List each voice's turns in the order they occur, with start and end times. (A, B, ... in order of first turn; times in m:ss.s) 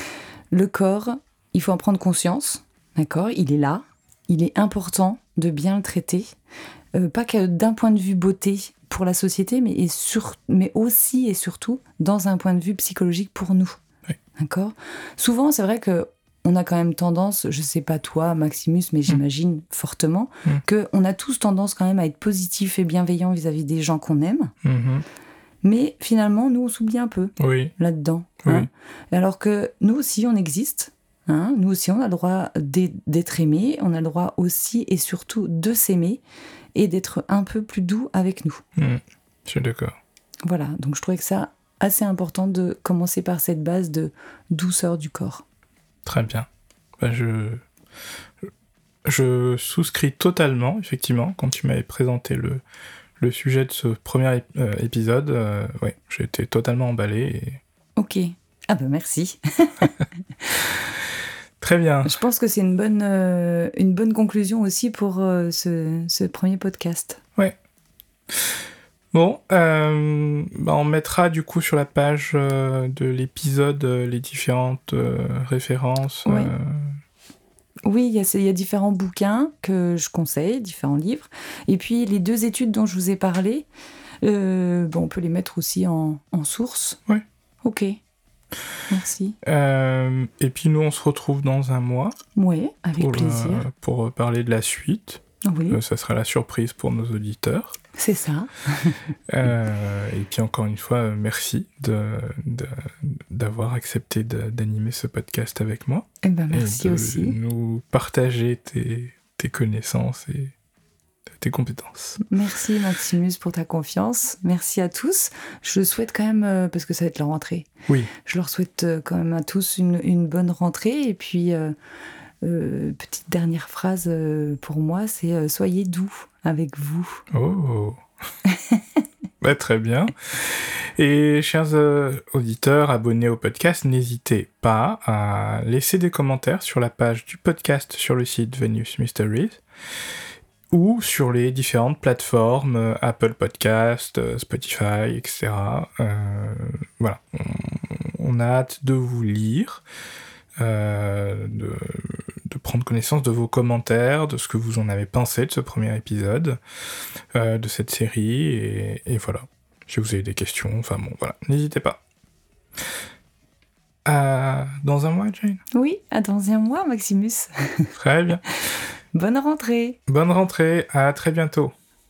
0:00.5-0:06.3 A
0:07.0-0:13.8 A
0:14.4-0:24.5 A
0:24.6-0:25.0 B
0:25.6-0:36.2 A
0:27.4-0:27.7 B
0:36.8-0:38.6 A
0:38.8-0:40.0 B
0:40.4-0:45.4 A
0:46.0-0:46.5 B
0:47.0-0:47.6 B
0:49.0-0:52.6 B
0:53.2-0:57.6 B
0:58.0-1:00.7 A
1:01.6-1:02.2 B
1:02.0-1:07.2 A
1:08.3-1:17.0 B
1:16.2-1:16.5 A
1:17.8-1:23.7 A
1:24.2-1:27.0 A
1:27.6-1:28.0 A
1:28.9-1:29.4 A
1:29.4-1:32.2 B
1:32.4-1:33.7 A
1:33.0-1:37.8 B
1:35.4-1:35.8 A
1:38.0-1:39.0 A
1:39.3-1:50.5 B
1:46.2-1:47.4 A
1:51.4-1:52.2 B
1:52.2-1:57.7 A
1:58.2-2:01.8 A
2:02.4-2:07.2 A
2:07.3-2:08.0 B
2:08.5-2:08.8 A
2:09.4-2:19.6 B
2:20.7-2:29.8 B
2:30.6-2:36.6 B
2:37.3-2:42.0 B
2:44.0-2:45.6 B
2:45.7-2:47.9 A
2:48.0-2:48.5 B
2:49.1-2:50.0 A
2:50.1-2:51.7 B